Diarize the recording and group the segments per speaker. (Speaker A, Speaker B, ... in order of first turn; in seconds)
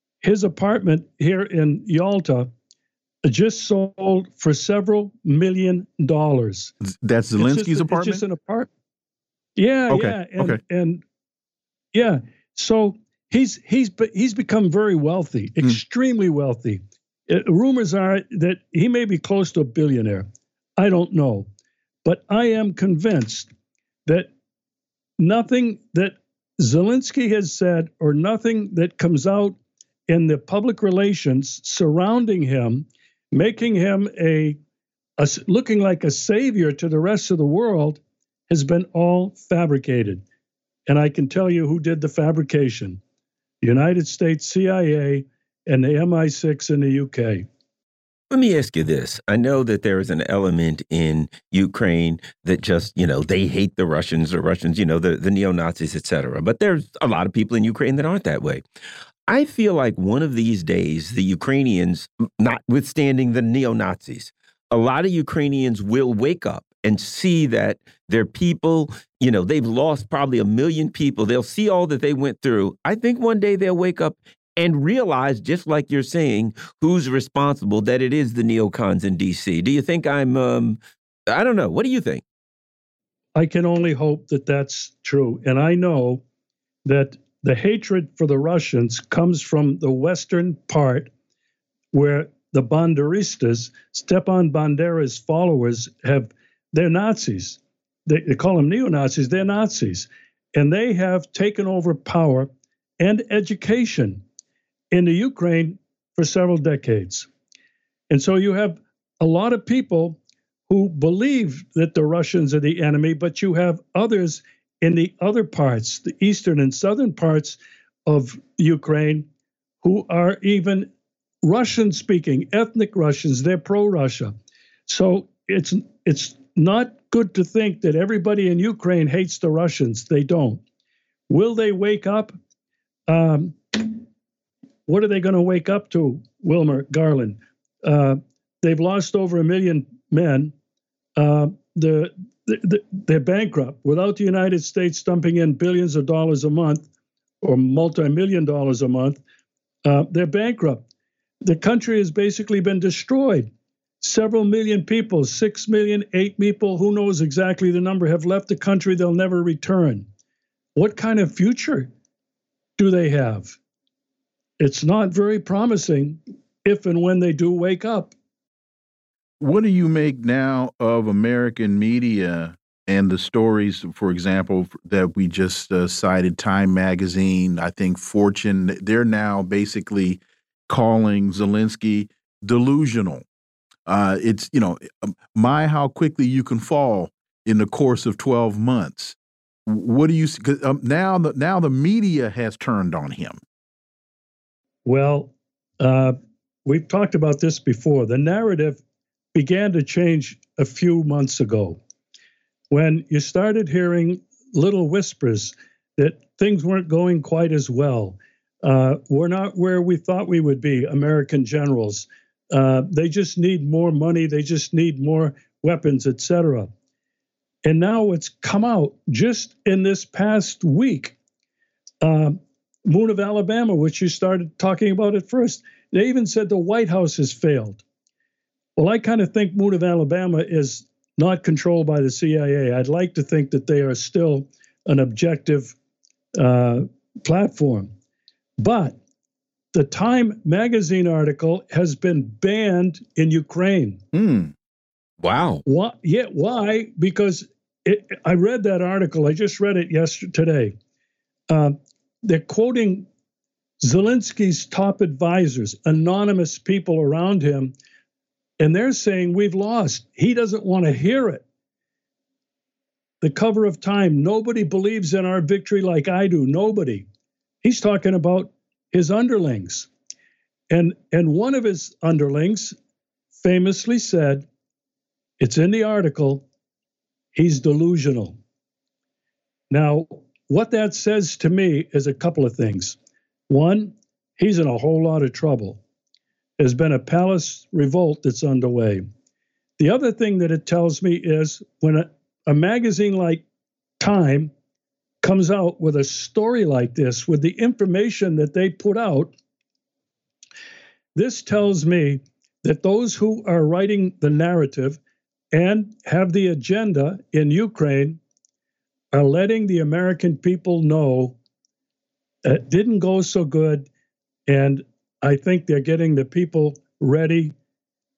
Speaker A: 0.2-2.5, 3.2-6.7, 7.4-8.7, 9.6-11.0, 11.9-21.5, 22.1-23.5, 24.1-24.3, 25.2-29.6, 30.1-34.6, 35.2-40.2, 40.9-43.0, 43.6-47.5, 83.4-86.2, 86.8-91.1, 91.9-102.5, 103.0-104.2, 104.9-107.3, 108.1-110.2, 110.7-119.3, 119.8-120.9, 121.4-124.3, 124.9-130.6, 131.3-132.4, 133.1-134.0, 134.9-140.5, 141.2-146.9, 147.4-149.2, 149.9-150.9, 151.4-153.5, 154.0-160.1, 160.8-161.9, 162.8-163.6, 164.6-168.1, 194.8-198.8, 199.3-201.8, 202.7-216.7, 217.6-221.2, 222.0-227.8, 228.8-235.8, 236.4-237.9, 238.6-239.0, 239.7-244.0, 245.7-250.8, 251.5-253.1, 253.8-257.8, 258.6-261.4, 263.2-267.1, 267.6-269.9, 270.7-272.8, 273.4-274.5, 275.4-276.5, 277.4-278.4, 279.7-283.0, 283.5-285.8, 286.6-289.0, 289.8-293.4, 294.0-294.5, 295.2-299.3, 301.1-305.0, 305.5-308.2, 309.1-311.4, 312.4-313.9, 314.5-317.6
Speaker B: 6.8-8.2, 9.9-10.6, 169.4-183.2, 183.9-193.4, 244.2-244.5
Speaker C: 48.3-58.6, 59.3-82.2, 244.2-244.4, 245.2-245.6